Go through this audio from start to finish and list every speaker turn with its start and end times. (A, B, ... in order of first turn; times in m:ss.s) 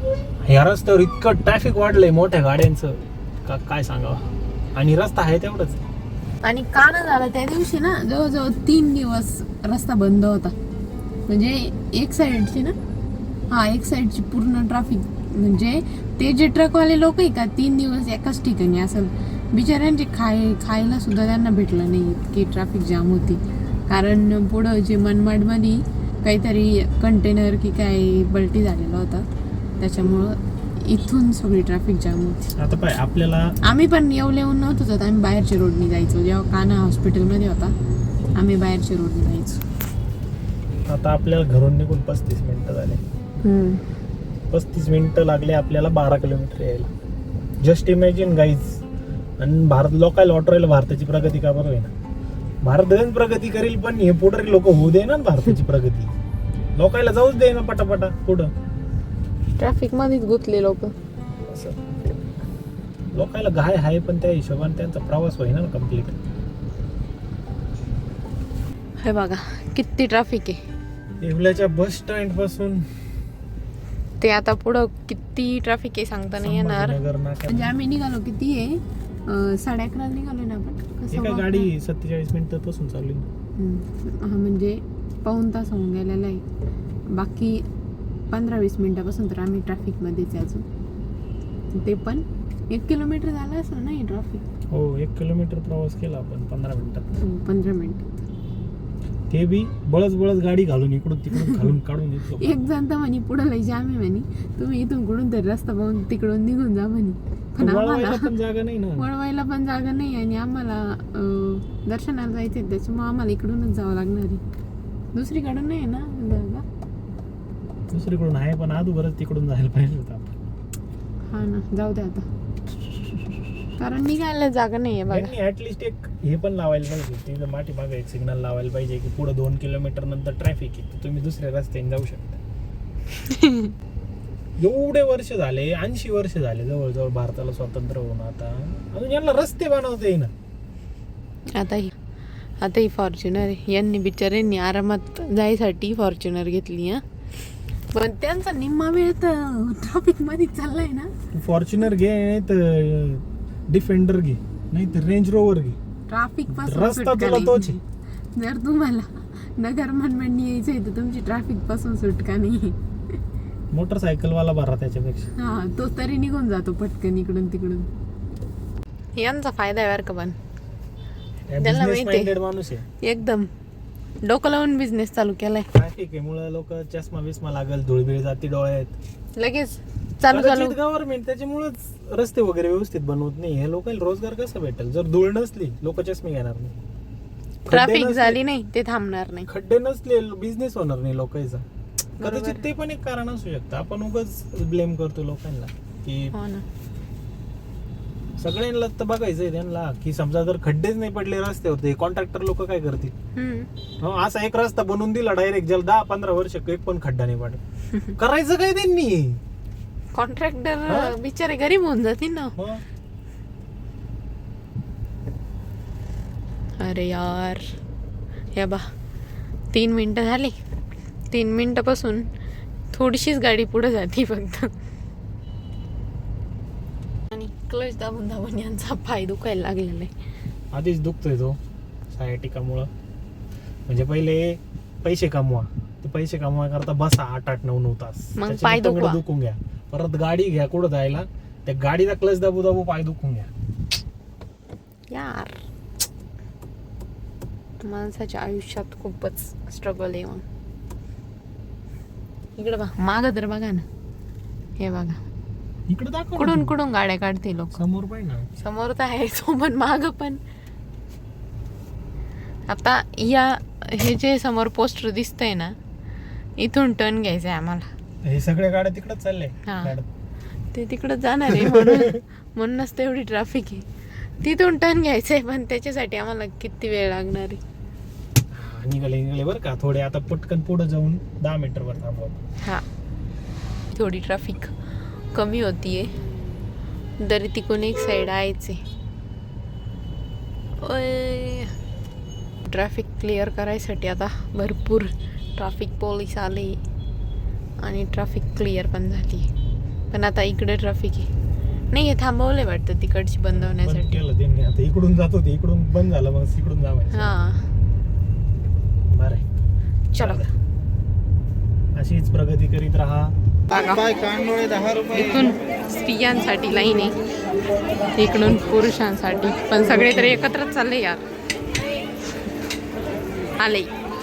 0:00.4-0:04.2 A
0:04.8-0:05.8 A
0:06.4-0:10.5 B
0:11.3-0:12.7 B
0:13.5-0:29.2 B
0:29.8-0:32.4 B
0:32.6-0:33.5 A
0:33.6-0:37.7 B
0:38.4-0:39.6 B
0:40.9-0:43.0 A
0:43.4-0:43.8 B
0:44.5-0:46.9 A
0:47.6-0:48.8 A
0:49.4-0:51.9 A
0:52.6-0:56.1 A
0:56.8-0:58.5 A
0:59.6-1:00.9 B
1:01.5-1:01.8 A
1:03.1-1:06.2 A
1:09.0-1:10.6 B
1:11.2-1:12.8 A
1:14.2-1:21.7 B
1:16.4-1:17.7 A
1:21.1-1:23.3 A
1:23.6-1:26.4 B
1:27.2-1:27.6 B
1:28.3-1:30.6 B
1:31.7-1:34.4 B
1:34.7-1:37.1 A
1:37.2-1:38.2 B
1:39.3-1:42.5 A
1:41.3-1:41.7 B
1:42.4-1:48.3 B
1:47.6-1:49.0 A
1:49.0-1:54.4 B
1:55.1-1:56.6 B
1:57.9-2:00.3 A
2:01.3-2:02.2 B
2:03.8-2:05.3 B
2:05.1-2:12.4 A
2:13.2-2:13.7 B
2:14.6-2:20.3 A
2:21.5-2:21.9 B
2:22.6-2:27.0 B
2:27.9-2:31.1 B
2:31.3-2:35.8 A
2:36.1-2:37.8 B
2:36.5-2:37.8 A
2:38.4-2:39.1 B
2:39.6-2:42.8 B
2:43.7-2:45.3 A
2:45.4-2:47.9 B
2:49.2-2:50.4 B
2:51.5-2:52.8 A
2:51.6-2:52.3 B
2:53.0-2:53.5 B
2:54.2-2:55.7 B
2:55.7-2:58.9 A
2:59.4-3:00.8 B
3:00.3-3:06.8 A
3:07.6-3:08.4 A
3:07.7-3:09.5 B
3:09.5-3:11.6 A
3:12.2-3:12.6 B
3:12.2-3:16.3 A
3:16.3-3:16.6 B
3:18.4-3:23.1 A
3:23.3-3:23.7 B
3:24.0-3:27.6 A
3:28.2-3:29.4 A
3:30.1-3:32.5 B
3:30.9-3:31.1 A
3:32.6-3:32.8 A
3:36.8-3:37.6 B
3:38.5-3:38.8 B
3:39.7-3:40.6 B
3:41.3-3:42.2 B
3:42.9-3:44.7 B
3:47.3-3:50.1 B
3:50.7-3:51.6 A
3:52.1-3:52.9 A
3:53.9-4:03.5 A
3:58.4-3:59.2 B
4:05.1-4:05.6 B
4:07.8-4:10.4 B
4:12.6-4:13.8 B
4:14.8-4:15.2 B
4:15.9-4:16.7 A
4:16.4-4:17.8 B
4:17.8-4:18.5 A
4:18.6-4:20.4 B
4:22.7-4:25.7 B
4:26.6-4:27.9 B
4:28.2-4:30.1 A
4:29.6-4:29.9 B
4:30.7-4:33.8 B
4:31.5-4:32.2 A
4:34.4-4:37.6 B
4:38.5-4:42.4 A
4:43.9-4:44.7 B
4:45.3-4:46.1 B
4:47.2-4:48.8 B
4:50.8-4:51.7 B
4:52.6-4:56.8 B
4:57.8-4:59.5 B
5:00.1-5:01.3 B
5:01.9-5:04.2 B
5:03.5-5:07.3 A
5:07.1-5:07.6 B
5:09.1-5:09.4 A
5:10.1-5:10.4 B
5:10.2-5:10.5 A
5:12.0-5:13.3 A
5:13.7-5:14.3 B
5:14.8-5:17.2 B
5:18.1-5:21.2 B
5:23.6-5:23.9 B